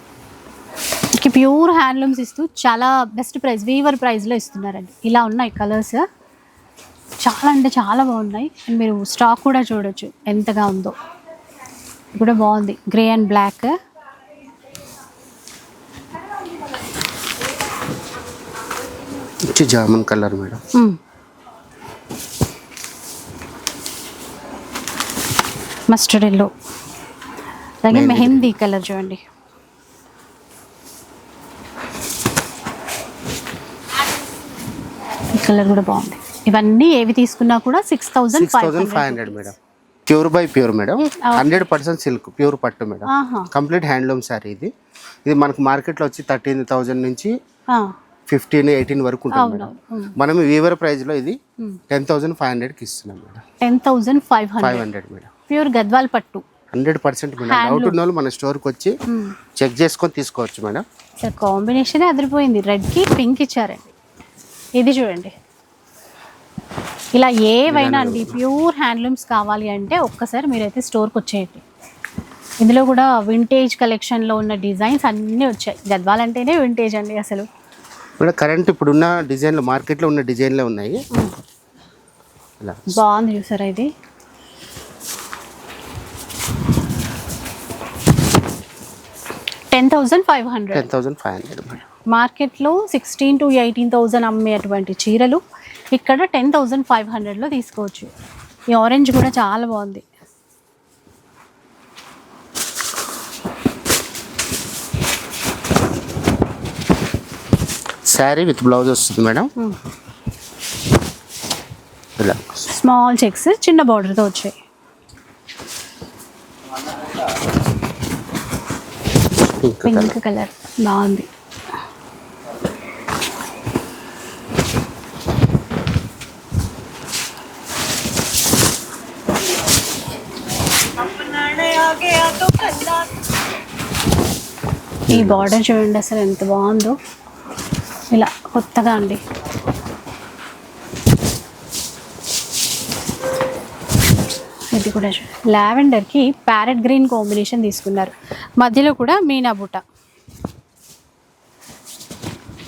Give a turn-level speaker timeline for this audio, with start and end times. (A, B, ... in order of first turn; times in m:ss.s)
0:01.2-0:06.0 A
0:07.2-0:10.9 A
0:12.2-0:13.7 A
0:19.5-0:20.6 B
0:25.9-0:26.5 A
0:27.8-0:29.2 A
0:27.9-0:28.5 B
0:35.3-0:39.5 A
0:38.3-0:39.6 B
0:40.1-0:44.7 B
0:41.2-0:41.6 A
0:43.1-0:43.5 A
0:45.2-0:47.3 B
0:48.3-0:51.4 B
0:49.3-0:50.1 A
0:51.9-0:53.4 B
0:53.6-0:54.8 A
0:54.6-0:55.3 B
0:55.5-0:56.4 A
0:56.7-0:58.9 B
0:57.4-0:58.0 A
0:59.1-0:59.3 A
0:59.6-1:00.8 B
1:01.2-1:03.9 A
1:04.8-1:05.3 A
1:07.1-1:11.6 A
1:07.7-1:08.4 B
1:12.6-1:17.5 A
1:18.2-1:21.0 B
1:22.6-1:23.0 B
1:22.9-1:23.9 A
1:29.7-1:30.9 A
1:30.7-1:31.9 B
1:32.1-1:35.4 A
1:35.9-1:38.1 A
1:38.7-1:40.0 A
1:48.1-1:49.5 B
1:52.2-1:52.6 B
1:52.7-1:54.6 A
1:59.6-2:00.1 B
1:59.8-2:01.3 A
2:11.6-2:12.8 A
2:15.1-2:15.5 B
2:15.1-2:17.0 A
2:18.1-2:19.2 A
2:24.7-2:29.8 A